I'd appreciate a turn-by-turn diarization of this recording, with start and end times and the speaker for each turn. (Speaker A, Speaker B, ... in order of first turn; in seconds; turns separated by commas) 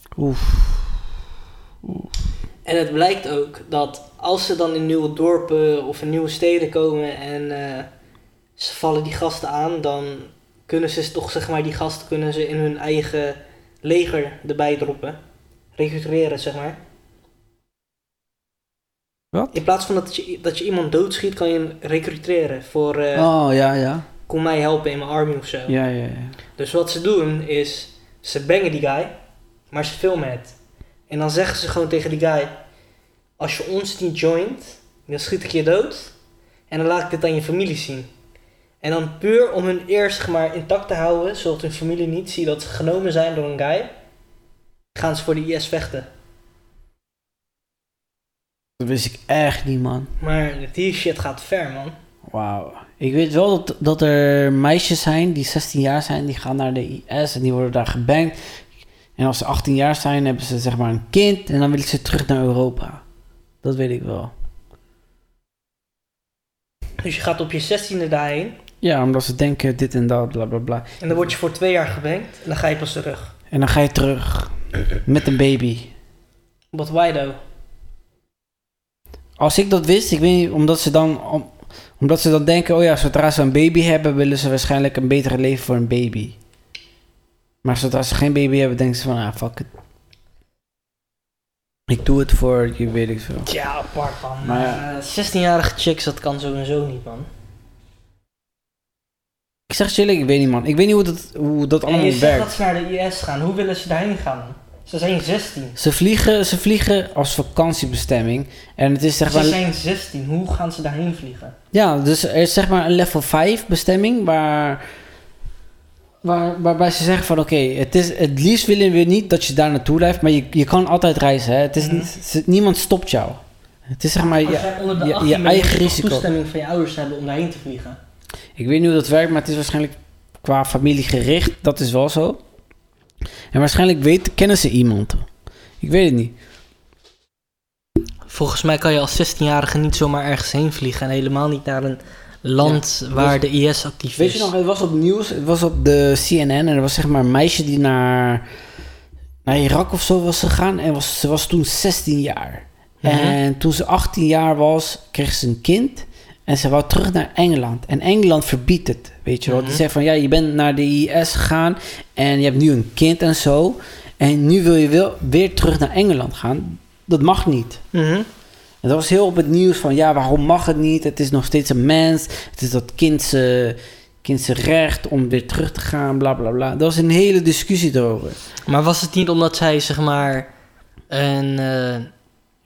Speaker A: 0.2-0.9, Speaker B: 2.6-7.9, Speaker B: 8.6-15.2, Speaker B: 15.7-16.8, Speaker B: 19.5-23.3, Speaker A: 23.1-24.1, Speaker B: 24.2-25.8, Speaker A: 25.7-26.4, Speaker B: 26.6-29.1, Speaker B: 29.7-30.5, Speaker B: 31.1-32.6, Speaker B: 33.4-36.1, Speaker B: 36.7-38.1, Speaker B: 38.8-43.9, Speaker B: 44.9-46.1, Speaker A: 48.8-50.1, Speaker B: 50.2-52.0, Speaker A: 52.3-58.5, Speaker A: 59.1-63.0, Speaker A: 63.6-64.3, Speaker B: 67.0-68.6, Speaker A: 68.8-71.3, Speaker B: 71.0-73.3, Speaker A: 73.5-75.9, Speaker B: 76.7-77.4, Speaker A: 79.4-86.4, Speaker A: 87.6-89.7, Speaker A: 91.9-93.5, Speaker B: 93.5-97.3, Speaker A: 94.4-94.8, Speaker A: 99.7-102.5, Speaker B: 101.8-105.8, Speaker A: 105.8-109.6, Speaker B: 109.2-111.5, Speaker A: 111.7-114.9, Speaker A: 116.2-123.4, Speaker B: 121.8-122.1, Speaker A: 123.9-126.2, Speaker B: 124.4-128.0, Speaker A: 128.6-132.4, Speaker A: 133.5-135.3, Speaker A: 135.8-136.3, Speaker B: 138.3-144.5, Speaker A: 142.6-143.4, Speaker A: 144.2-148.4, Speaker A: 149.4-167.8, Speaker B: 153.0-153.4, Speaker B: 159.5-159.8, Speaker B: 167.9-168.3, Speaker A: 168.8-178.4, Speaker B: 178.7-180.5, Speaker B: 181.1-182.1